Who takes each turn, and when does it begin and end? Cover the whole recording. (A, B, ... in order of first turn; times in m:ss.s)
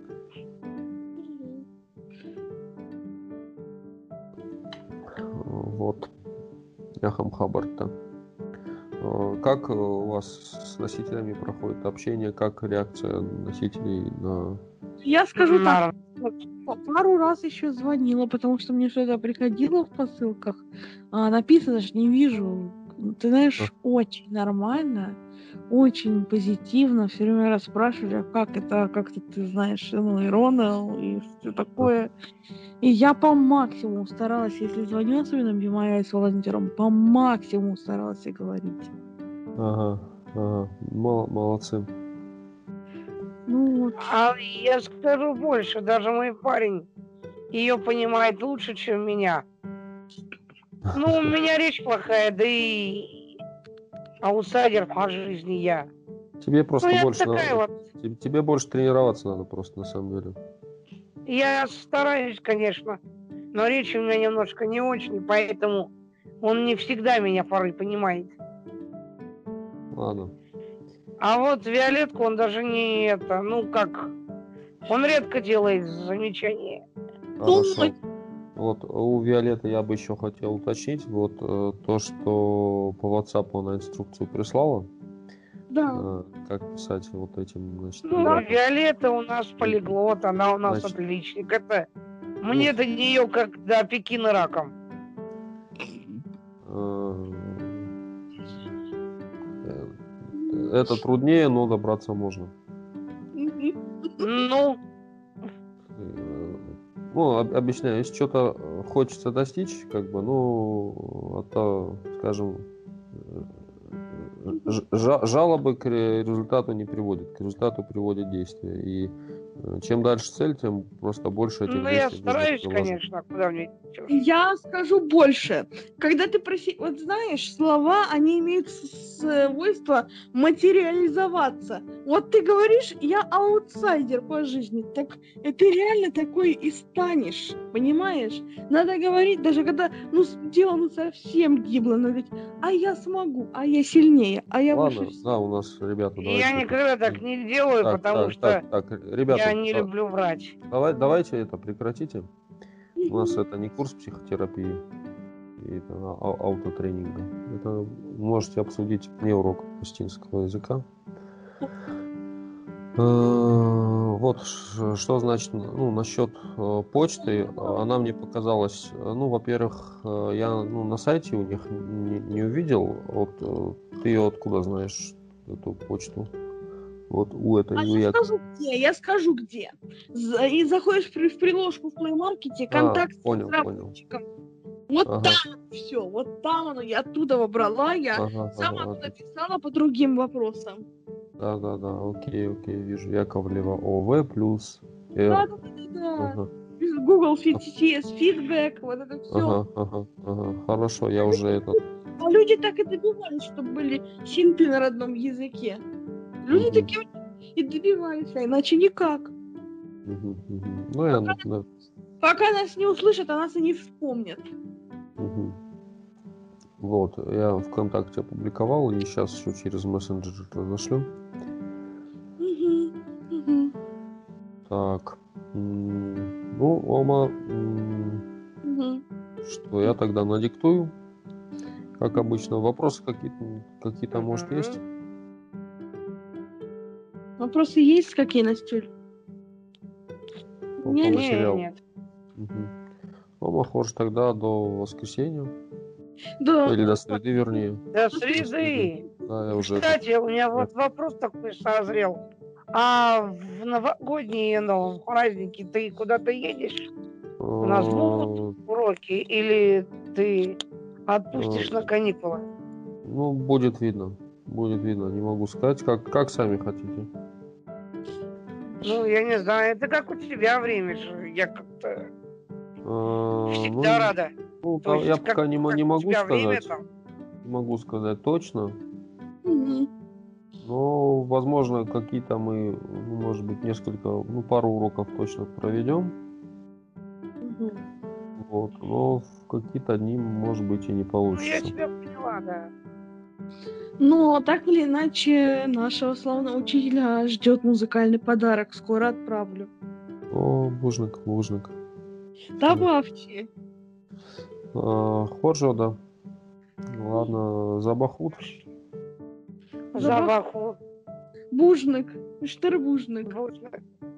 0:01.2-0:01.6 A
0:05.2-0:06.1 B
0:07.0-0:07.9 B
0:09.0-0:14.6 B
0:15.0-0:15.8 A
0:15.4-0:16.3 C
0:16.6-0:25.2 A
0:25.7-0:32.1 A
0:32.8-0:38.9 A
0:39.6-0:41.9 B
0:43.5-0:44.0 A
0:44.0-0:46.9 C
0:47.5-0:49.4 C
0:50.9-0:51.3 B
0:50.9-0:53.1 C
0:54.2-0:55.9 C
0:56.4-1:00.4 B
0:56.8-0:57.7 C
1:01.3-1:03.0 C
1:03.5-1:05.9 C
1:06.4-1:08.3 C
1:09.9-1:10.3 B
1:11.2-1:14.1 C
1:14.9-1:16.8 C
1:17.4-1:17.9 B
1:17.5-1:17.9 A
1:18.5-1:24.9 B
1:25.7-1:26.1 A
1:25.9-1:28.6 B
1:28.1-1:31.8 C
1:29.6-1:30.0 B
1:30.6-1:30.9 B
1:32.4-1:34.7 C
1:35.9-1:36.2 A
1:36.6-1:37.9 B
1:39.6-1:42.5 B
1:40.3-1:40.9 A
1:43.3-1:44.3 A
1:44.2-1:44.8 C
1:45.9-2:03.0 B
2:01.7-2:04.1 C
2:04.1-2:25.2 A
2:24.7-2:27.2 B
2:26.2-2:28.6 C
2:27.8-2:29.9 B
2:29.3-2:30.5 C
2:30.7-2:32.3 B
2:33.0-2:33.4 A
2:33.1-2:34.8 B
2:35.6-2:40.8 B
2:43.0-2:56.3 B
2:47.2-2:47.8 A
2:57.1-2:58.2 B
2:57.7-3:04.2 A
3:02.7-3:03.9 B
3:04.9-3:10.8 A
3:05.0-3:05.4 B
3:08.1-3:09.1 B
3:11.4-3:15.4 B
3:15.3-3:19.6 A
3:16.2-3:16.5 B
3:19.3-3:21.8 B
3:21.3-3:25.8 A
3:26.4-3:27.0 A
3:26.5-3:26.9 B
3:27.6-3:29.3 A
3:30.0-3:31.6 B
3:31.1-3:31.4 A
3:32.2-3:34.4 A
3:35.2-3:35.6 B
3:36.8-3:41.1 B
3:42.4-3:43.7 A
3:44.6-3:48.2 B
3:48.6-3:49.0 A
3:49.4-3:50.9 B
3:52.0-3:54.8 B
3:54.1-3:54.8 C
3:57.4-3:58.9 A
4:00.8-4:01.3 A
4:00.8-4:01.6 B
4:01.1-4:01.8 C
4:02.4-4:02.7 B
4:03.4-4:05.5 B
4:06.4-4:07.2 A
4:06.6-4:07.8 B
4:07.9-4:09.0 C
4:08.3-4:10.0 B
4:09.7-4:12.2 C
4:12.7-4:16.9 C
4:17.4-4:18.5 B
4:17.6-4:22.4 C
4:21.3-4:21.8 B
4:23.0-4:27.1 B
4:28.8-4:32.0 C
4:32.8-4:36.7 B
4:33.5-4:34.3 C
4:34.8-4:36.8 C
4:37.4-4:38.8 B
4:39.4-4:39.9 A
4:40.6-4:46.1 B
4:47.4-4:47.8 A
4:48.4-4:51.7 B
4:51.3-4:52.7 C
4:54.0-4:59.7 A
5:00.3-5:01.7 B
5:02.6-5:03.5 A
5:04.7-5:06.0 B
5:06.9-5:08.6 B
5:09.9-5:10.8 C
5:10.0-5:10.3 A
5:11.5-5:13.3 A
5:13.3-5:13.8 C